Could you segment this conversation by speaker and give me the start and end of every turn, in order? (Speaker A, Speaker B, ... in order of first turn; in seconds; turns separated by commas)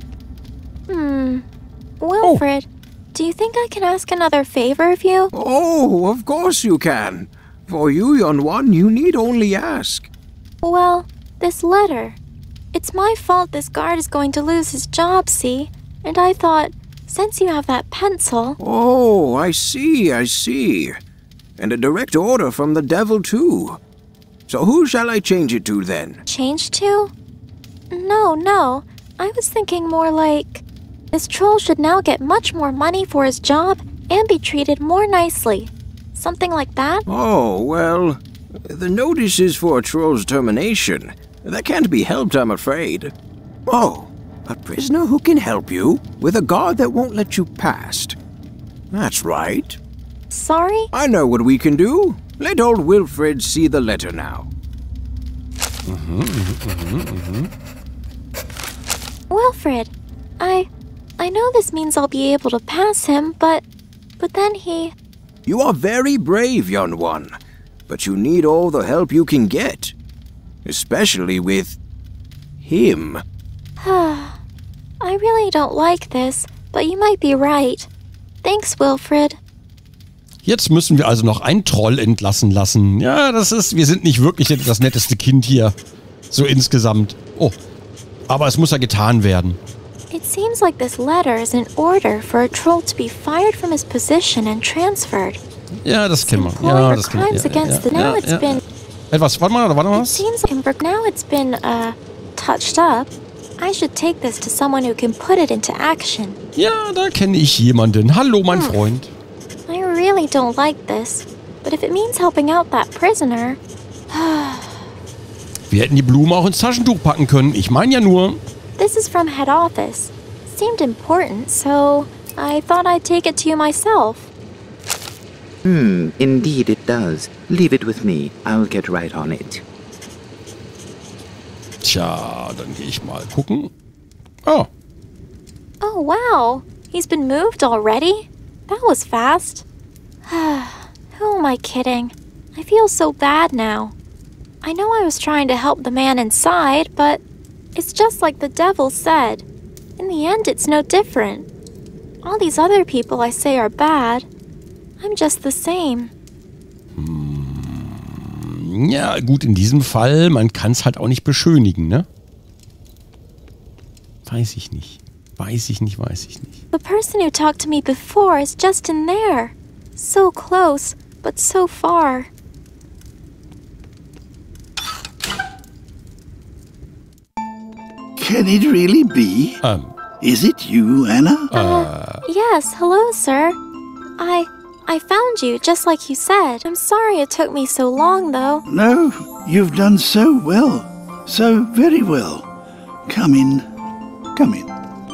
Speaker A: 0.9-1.4, Speaker A: 2.0-5.3, Speaker B: 5.3-10.1, Speaker A: 10.6-12.2, Speaker A: 12.7-18.6, Speaker B: 18.6-21.0, Speaker B: 21.6-23.8, Speaker B: 24.5-26.2, Speaker A: 26.2-27.1, Speaker A: 27.9-37.0, Speaker B: 37.1-43.1, Speaker B: 43.7-48.2, Speaker B: 48.9-49.8, Speaker A: 50.3-50.9, Speaker B: 50.9-54.5, Speaker C: 55.9-57.5, Speaker A: 59.3-63.6, Speaker A: 64.2-64.9, Speaker B: 65.5-67.3, Speaker B: 67.9-69.9, Speaker B: 70.6-71.8, Speaker B: 72.6-73.2, Speaker A: 73.8-74.4, Speaker A: 75.0-77.9, Speaker A: 78.4-79.4, Speaker C: 80.4-85.7, Speaker C: 86.3-87.5, Speaker C: 88.3-89.6, Speaker A: 90.1-95.4, Speaker C: 95.8-100.2, Speaker A: 96.2-98.6, Speaker A: 99.9-106.4, Speaker C: 106.5-109.1, Speaker A: 108.5-108.9, Speaker A: 109.7-114.9, Speaker C: 115.7-118.4, Speaker A: 118.8-124.3, Speaker D: 125.6-129.6, Speaker C: 131.8-133.7, Speaker A: 135.8-139.6, Speaker A: 140.2-143.9, Speaker A: 144.6-147.2, Speaker A: 147.7-149.4, Speaker A: 150.0-151.5, Speaker A: 152.2-154.2, Speaker A: 155.0-156.1, Speaker C: 157.0-162.1, Speaker C: 164.2-166.6, Speaker A: 166.7-172.3, Speaker E: 178.2-179.6, Speaker C: 179.6-179.9, Speaker E: 180.2-181.5, Speaker C: 181.5-182.2, Speaker A: 181.6-183.6, Speaker A: 184.2-188.6, Speaker E: 188.7-192.5, Speaker E: 193.1-193.7, Speaker E: 194.3-194.7